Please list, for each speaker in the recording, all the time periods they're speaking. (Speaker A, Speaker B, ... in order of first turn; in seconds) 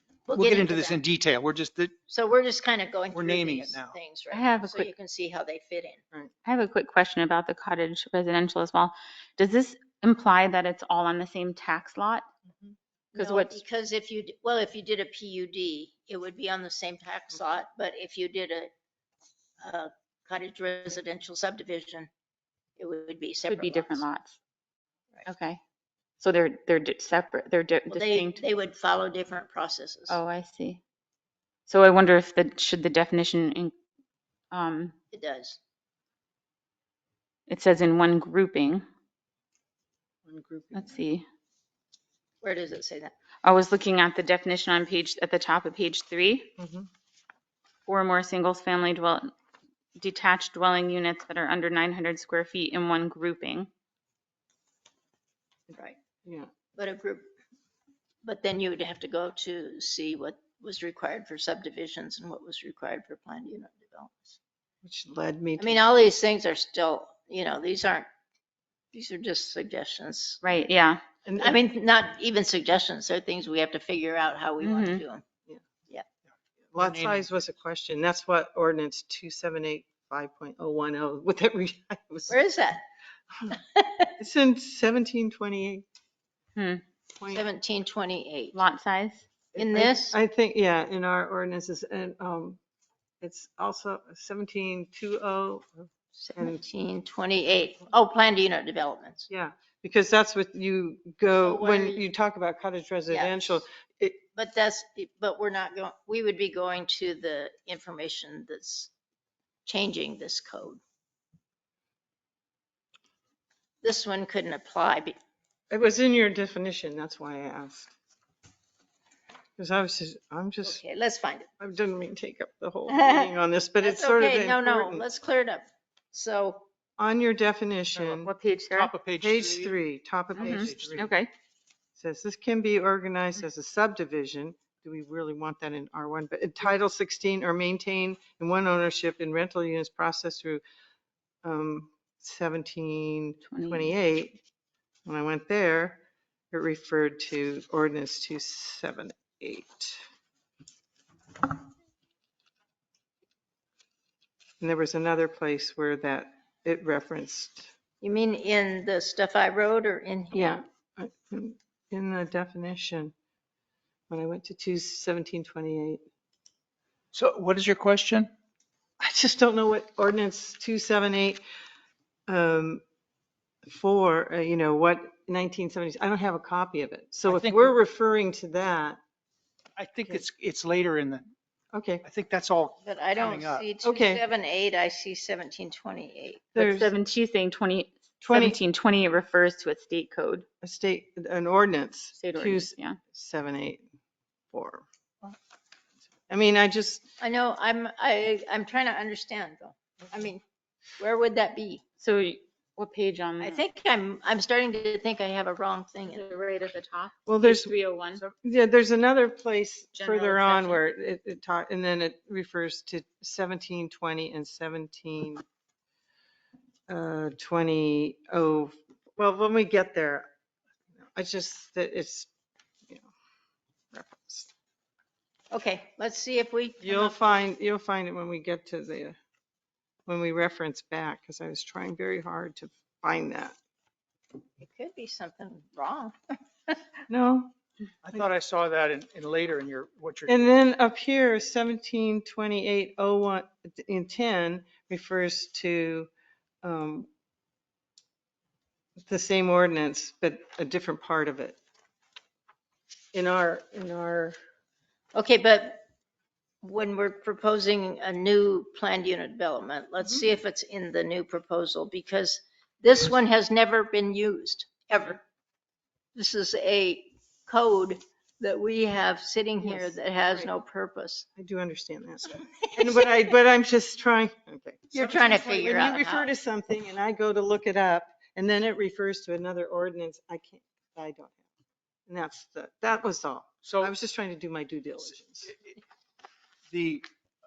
Speaker A: 0.3-1.0, 2.1-6.0, 13.2-18.7, 19.6-22.1, 22.8-24.1, 27.9-30.2, 35.1-35.6, 42.4-43.1, 56.7-57.3, 58.2-64.4, 65.6-68.1, 68.9-70.4, 71.4-75.2, 82.3-82.8, 83.5-84.1, 87.3-88.6, 89.6-90.2, 96.2-99.3, 101.4-102.0, 103.1-103.6, 104.3-108.9, 109.7-110.8, 113.8-115.2, 120.6-121.5, 122.9-126.7, 158.0-160.4, 182.8-186.6, 197.2-200.4, 201.0-201.8, 203.4-206.2, 225.5-227.2, 234.6-237.0, 255.1-255.8, 256.6-265.2, 266.1-271.2, 274.9-276.3
Speaker B: 0.3-1.9, 3.1-3.9, 76.7-77.2, 128.7-129.8, 130.4-131.1, 167.1-168.3, 177.2-177.7, 179.8-181.3, 182.0-183.7, 238.0-240.4, 283.6-283.9, 286.7-287.0
Speaker C: 4.3-4.9, 6.4-12.2, 13.1-13.6, 23.5-24.4, 25.2-25.6, 26.2-28.4, 30.1-30.8, 31.7-33.7, 34.5-34.9, 37.5-38.8, 40.7-41.2, 43.4-46.5, 47.9-49.3, 50.0-53.7, 70.4-71.0, 74.6-75.0, 86.5-86.8, 88.5-89.2, 128.1-128.9, 130.3-131.3, 143.5-143.9, 186.6-190.4, 192.1-193.0, 202.0-203.6, 206.1-208.2, 209.9-210.8
Speaker D: 40.2-41.0, 46.6-46.9, 56.2-56.5, 64.8-65.9, 71.2-71.6, 76.7-82.4, 84.2-85.8, 89.5-92.6, 93.2-96.6, 99.3-104.2, 115.7-117.9, 119.6-120.8, 121.6-125.0, 127.0-128.3, 129.2-131.1, 131.9-140.6, 141.4-144.4, 145.1-150.0, 154.6-157.7, 160.3-163.1, 164.1-166.0, 169.0-171.4, 172.3-172.8, 173.7-179.0, 181.7-182.0, 183.8-184.2, 186.5-186.9, 188.2-188.6, 190.6-193.8, 194.5-195.3, 196.3-197.1, 207.3-207.8, 208.3-215.4, 216.9-220.3, 220.9-222.3, 223.9-224.5, 226.8-229.2, 230.1-233.5, 237.1-237.5, 240.3-246.1, 246.6-247.1, 249.1-251.6, 253.1-254.3, 269.6-270.5, 271.4-281.4, 282.1-285.5